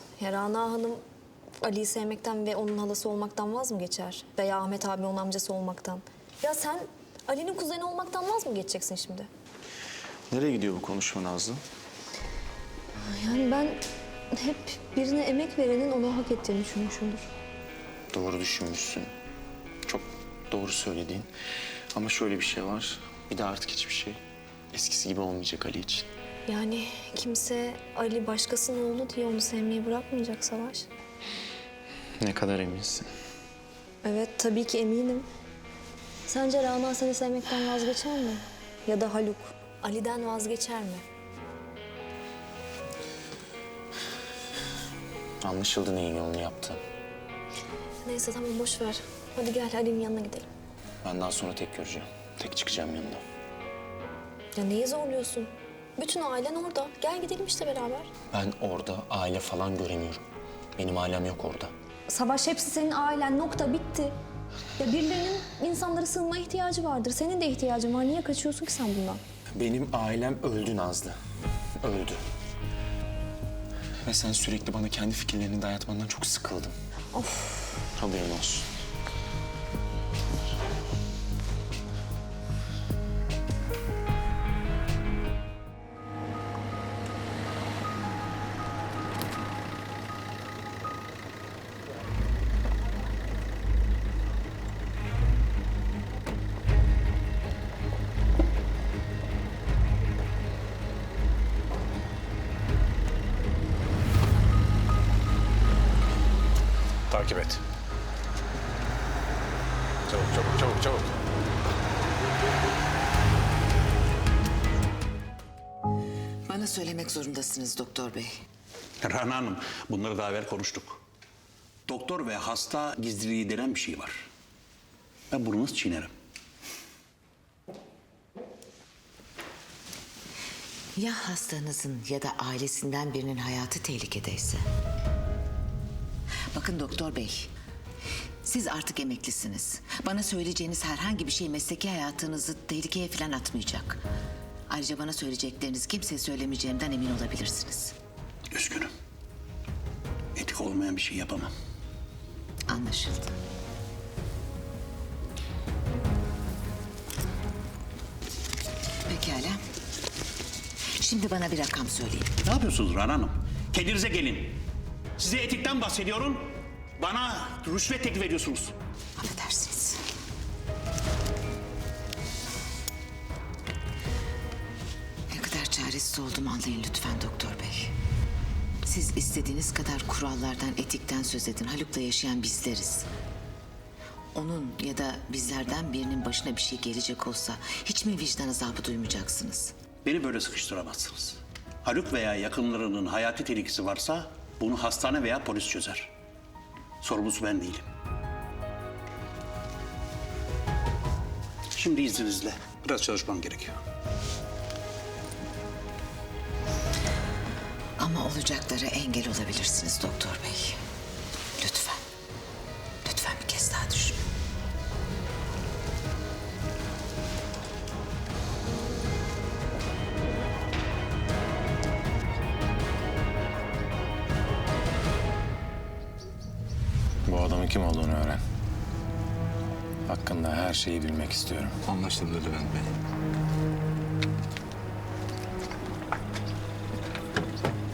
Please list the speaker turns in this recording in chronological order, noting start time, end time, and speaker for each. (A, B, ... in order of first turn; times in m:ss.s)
0:00.2-0:01.0 A
0:01.6-0:09.3 A
0:10.3-0:11.6 B
0:13.0-0:13.8 A
0:14.3-0:17.2 A
0:18.1-0:19.1 B
0:19.8-0:21.3 B
0:21.9-0:24.2 B
0:24.7-0:26.1 B
0:26.5-0:30.9 A
0:32.2-0:33.1 B
0:34.0-0:35.2 A
0:36.2-0:41.0 A
0:45.4-0:46.8 B
0:48.0-0:50.5 A
0:51.0-0:53.2 B
0:54.6-0:58.1 A
0:58.3-1:00.2 B
1:00.8-1:01.7 B
1:02.1-1:04.1 A
1:04.8-1:09.2 A
1:09.6-1:11.2 B
1:11.8-1:12.2 B
1:14.0-1:16.7 B
1:17.1-1:17.8 A
1:18.0-1:18.7 B
1:47.1-1:47.6 C
1:50.1-1:51.1 C
1:56.5-1:58.3 D
1:59.0-2:01.0 E
2:01.9-2:04.2 E
2:05.3-2:06.1 E
2:11.0-2:14.6 D
2:16.5-2:17.5 D
2:18.4-2:24.0 D
2:24.7-2:27.9 D
2:28.5-2:28.9 E
2:30.4-2:31.5 E
2:32.7-2:33.3 D
2:39.0-2:39.6 D
2:41.0-2:42.3 D
2:42.4-2:44.6 E
2:45.2-2:48.7 E
2:49.2-2:50.0 D
2:55.3-2:57.9 D
2:58.8-3:03.1 D
3:04.3-3:09.7 D
3:10.0-3:16.1 E
3:17.0-3:17.8 E
3:21.7-3:23.8 E
3:28.0-3:30.8 D
3:31.6-3:32.0 D
3:33.0-3:34.2 D
3:47.2-3:48.4 C
3:50.1-3:51.8 C
3:51.8-3:52.9 B